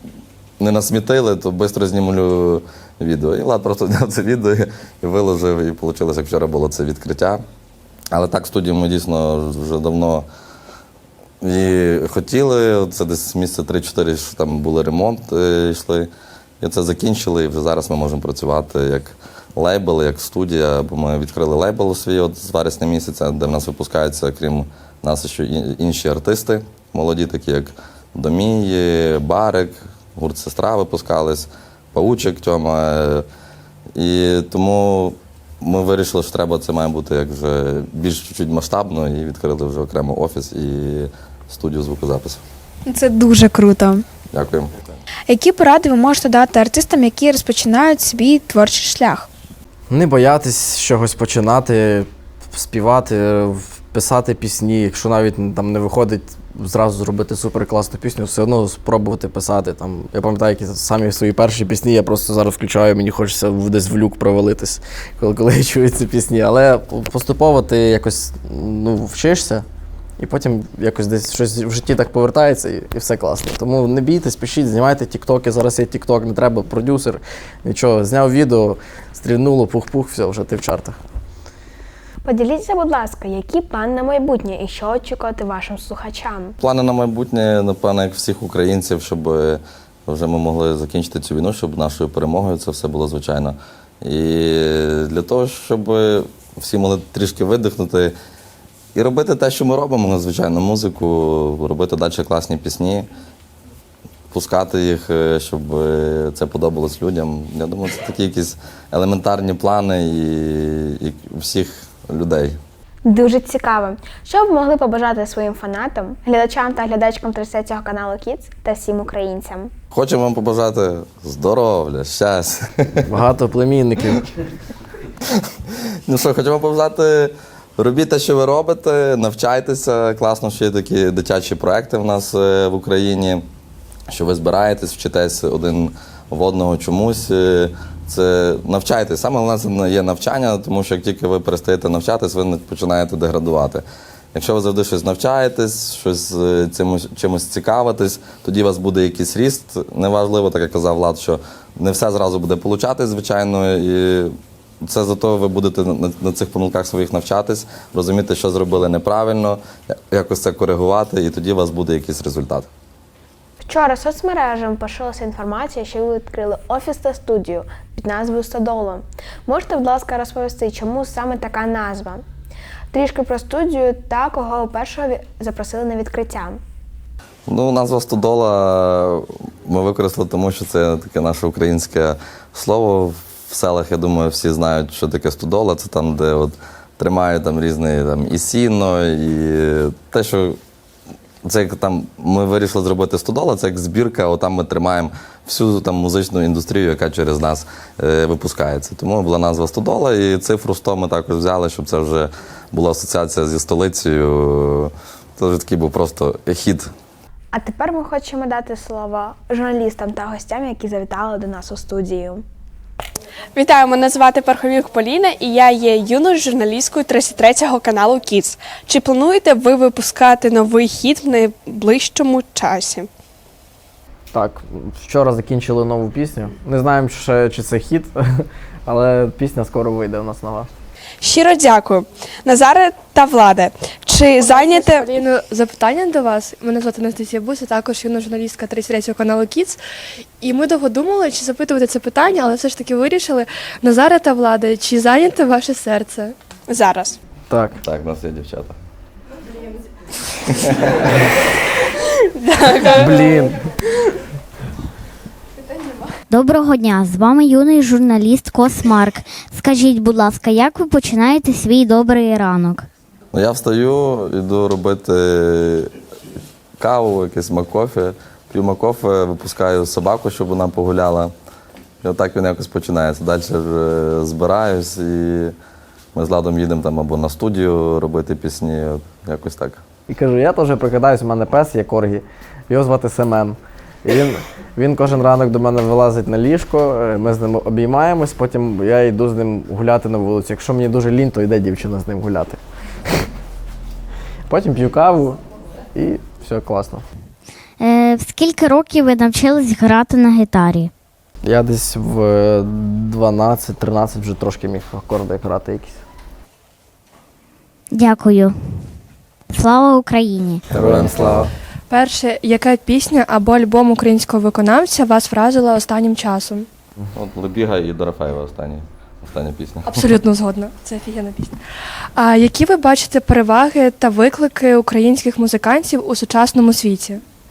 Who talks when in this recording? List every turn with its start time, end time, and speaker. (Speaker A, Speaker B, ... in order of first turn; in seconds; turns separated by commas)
Speaker A: 0.6-7.4, Speaker A: 8.1-10.3, Speaker A: 11.4-16.1, Speaker A: 16.6-33.2, Speaker A: 33.9-42.4, Speaker B: 42.9-44.0, Speaker A: 44.3-44.8, Speaker B: 45.3-49.3, Speaker C: 49.9-69.7, Speaker C: 70.2-81.0, Speaker D: 82.2-86.5, Speaker A: 86.6-98.2, Speaker A: 98.9-103.1, Speaker A: 104.3-112.6, Speaker D: 113.0-119.7, Speaker A: 119.9-123.1, Speaker C: 123.0-124.3, Speaker A: 126.0-133.4, Speaker A: 134.1-143.8, Speaker A: 144.3-162.7, Speaker D: 163.6-172.2, Speaker D: 172.9-176.6, Speaker A: 177.5-190.6, Speaker A: 191.4-206.9, Speaker D: 207.5-212.4, Speaker E: 213.5-223.1, Speaker C: 224.3-230.7, Speaker E: 231.2-235.1, Speaker F: 234.4-239.8, Speaker F: 240.4-246.3, Speaker E: 246.7-247.2, Speaker C: 247.5-247.8, Speaker A: 247.8-248.8, Speaker A: 250.6-250.9, Speaker E: 252.4-253.4, Speaker C: 252.9-253.6, Speaker G: 256.3-262.9, Speaker A: 263.3-265.9, Speaker A: 266.8-271.3, Speaker A: 272.0-275.5, Speaker A: 276.1-279.8, Speaker C: 280.1-293.2, Speaker C: 294.5-295.4, Speaker C: 295.9-297.1, Speaker G: 297.8-300.9, Speaker C: 301.4-306.0, Speaker G: 307.9-308.5, Speaker G: 309.5-310.6, Speaker A: 310.7-311.5, Speaker C: 310.7-311.5, Speaker F: 311.9-316.7, Speaker A: 317.1-320.0, Speaker F: 319.9-321.6, Speaker F: 322.1-327.2